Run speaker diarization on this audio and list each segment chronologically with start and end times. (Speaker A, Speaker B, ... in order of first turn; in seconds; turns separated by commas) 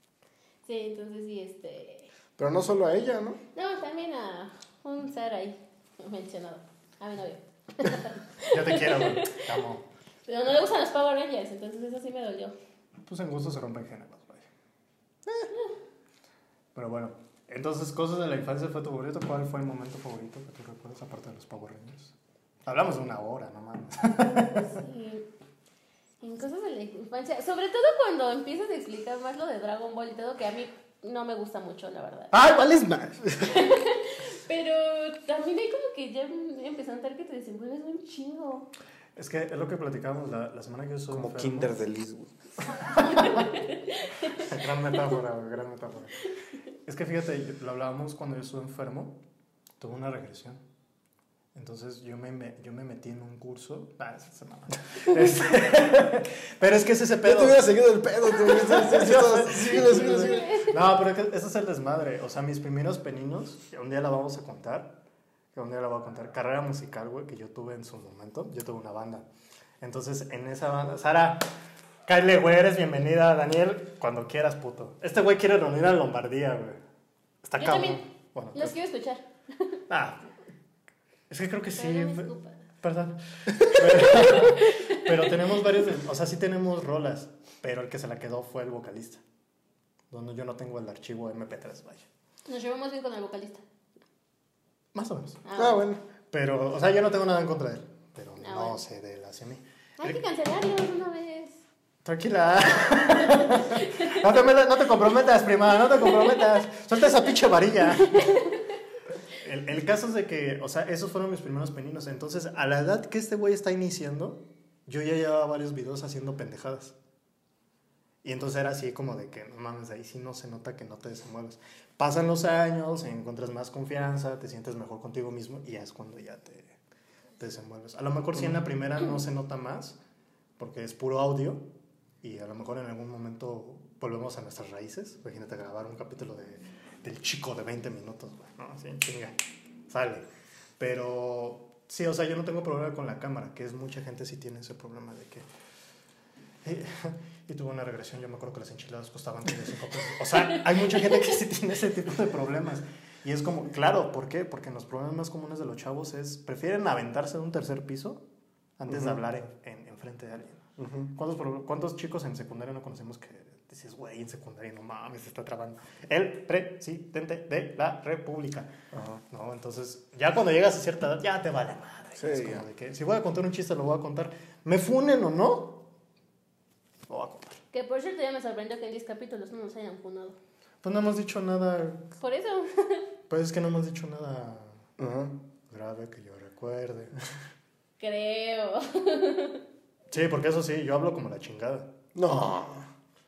Speaker A: 0.7-2.1, Speaker B: 2.4-3.4, Speaker A: 3.5-9.5, Speaker C: 8.4-9.8, Speaker A: 10.3-12.6, Speaker C: 13.1-14.5, Speaker C: 16.8-22.1, Speaker C: 22.7-24.7, Speaker A: 24.2-25.3, Speaker A: 26.2-32.3, Speaker C: 32.3-33.5, Speaker A: 33.4-38.7, Speaker C: 39.2-41.7, Speaker B: 41.1-42.3, Speaker C: 42.8-43.5, Speaker A: 42.9-44.5, Speaker C: 44.4-46.2, Speaker C: 46.9-49.2, Speaker C: 49.8-50.6, Speaker C: 51.5-57.7, Speaker B: 57.2-60.5, Speaker C: 58.4-65.0, Speaker A: 59.7-60.8, Speaker C: 65.5-69.3, Speaker C: 69.8-71.5, Speaker C: 72.1-76.8, Speaker C: 77.4-78.8, Speaker A: 77.6-79.8, Speaker C: 79.9-80.2, Speaker C: 81.3-89.2, Speaker A: 81.8-82.6, Speaker A: 83.6-85.2, Speaker C: 90.1-92.1, Speaker A: 92.5-93.6, Speaker C: 94.9-95.4, Speaker A: 95.4-95.8, Speaker B: 95.6-96.0, Speaker C: 96.3-100.2, Speaker A: 98.4-98.8, Speaker A: 100.0-101.6, Speaker C: 102.0-108.5, Speaker A: 103.6-104.1, Speaker A: 108.2-108.5, Speaker C: 109.3-117.0, Speaker C: 118.2-126.8, Speaker C: 127.4-130.0, Speaker C: 130.6-131.7, Speaker C: 132.2-139.4, Speaker C: 139.9-140.2, Speaker C: 140.8-145.5, Speaker C: 146.6-158.2, Speaker C: 158.8-168.7, Speaker B: 158.9-159.2, Speaker B: 160.8-161.1, Speaker B: 168.9-169.2, Speaker C: 169.3-175.8, Speaker B: 172.2-172.7, Speaker C: 177.1-177.6, Speaker A: 177.7-180.4, Speaker C: 180.8-182.1, Speaker A: 182.2-183.1, Speaker C: 183.3-184.8, Speaker B: 185.0-185.4, Speaker C: 185.7-187.1, Speaker A: 188.0-189.6, Speaker C: 190.1-191.9, Speaker B: 192.2-192.9